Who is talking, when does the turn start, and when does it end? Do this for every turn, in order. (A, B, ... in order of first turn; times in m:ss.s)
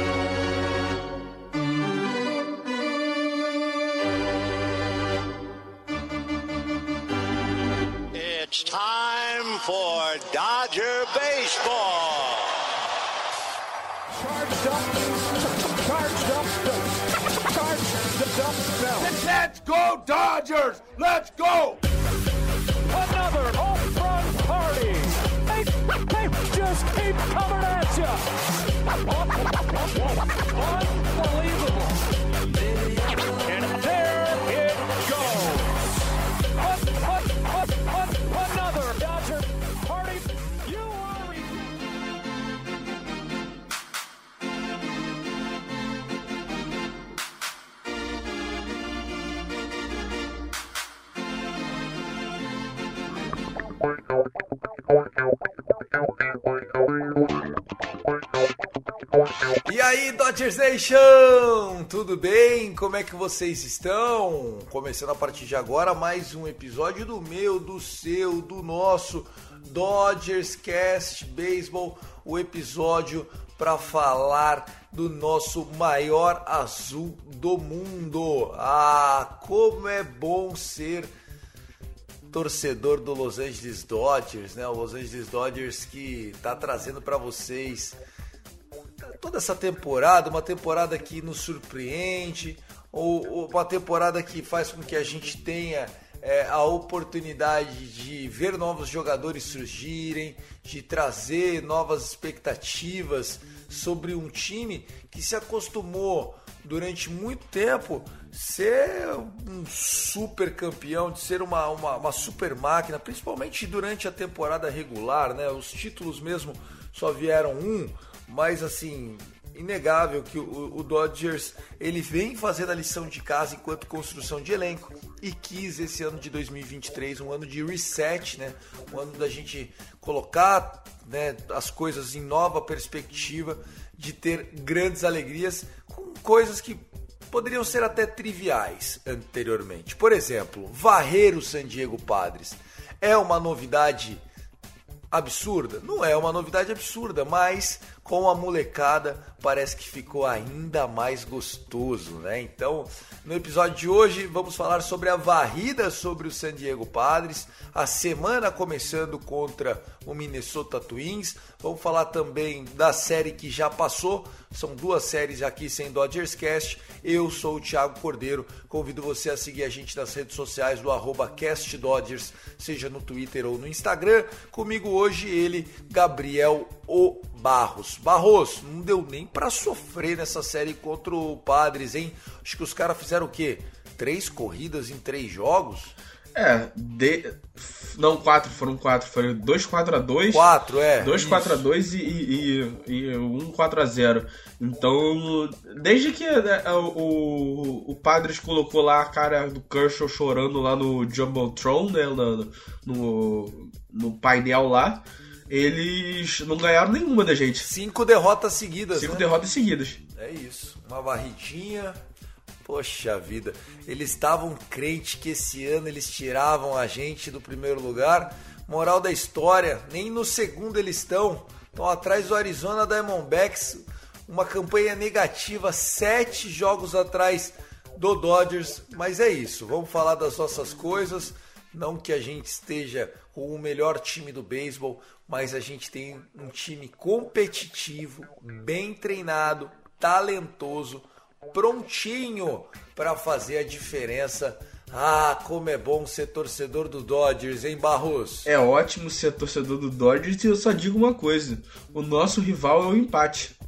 0:08.1-0:12.6 A
0:14.1-0:19.1 B
0:19.0-0:21.8 C
0:22.8-0:28.3 B
0:28.9-0:32.0 B
0:32.9-0:35.8 B
0:36.6-0:41.7 B
0:59.6-1:21.1 D
1:22.3-1:28.0 D
1:29.0-2:24.2 D
2:25.1-3:06.0 D
3:06.3-3:10.5 E
3:10.3-3:11.7 D
3:11.0-3:27.7 E
3:27.6-3:29.3 D
3:28.9-3:30.0 E
3:30.2-3:32.0 D
3:32.6-4:08.5 D
4:08.4-4:13.5 E